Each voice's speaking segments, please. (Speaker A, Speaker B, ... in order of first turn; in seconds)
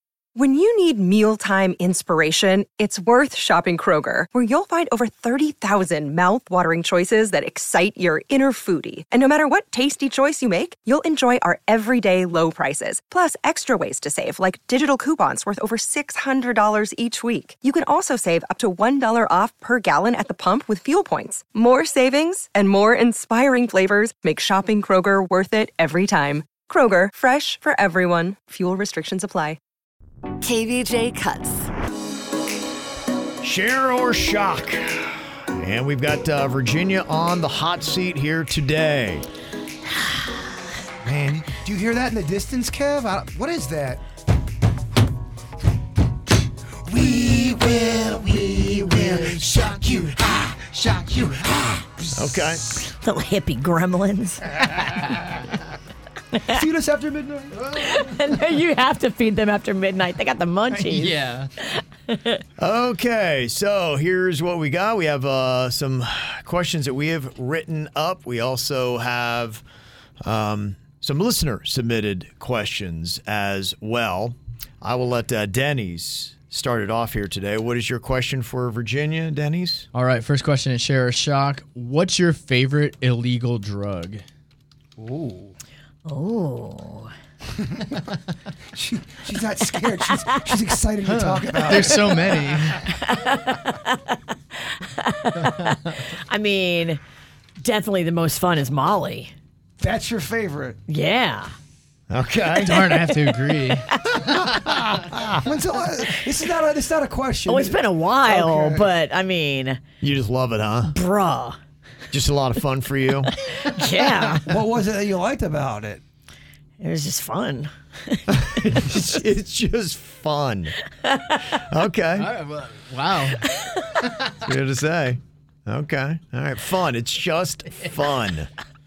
Speaker A: 0.4-29.6
Speaker B: 30.4-31.7, 52.8-54.8, 56.3-56.6, 57.6-62.4, 86.1-87.1, 92.9-94.2, 94.8-97.0, 97.6-99.3, 100.9-101.5, 107.5-109.8, 110.8-111.6, 113.6-114.5, 116.8-118.9, 121.0-121.4
Speaker C: 33.4-39.3, 52.1-52.6, 62.6-69.6, 70.2-79.9, 102.1-103.1, 104.7-105.2, 110.0-110.9, 112.1-113.3, 118.4-120.8, 121.5-122.3, 124.4-128.5
Speaker D: 41.0-44.0, 46.9-52.6, 56.5-57.6, 85.0-85.5, 87.6-88.0, 88.7-92.8, 99.8-100.8, 105.2-108.9, 114.5-116.0
Speaker E: 60.9-61.5, 79.9-84.2, 91.1-92.8, 102.6-103.9, 122.2-123.5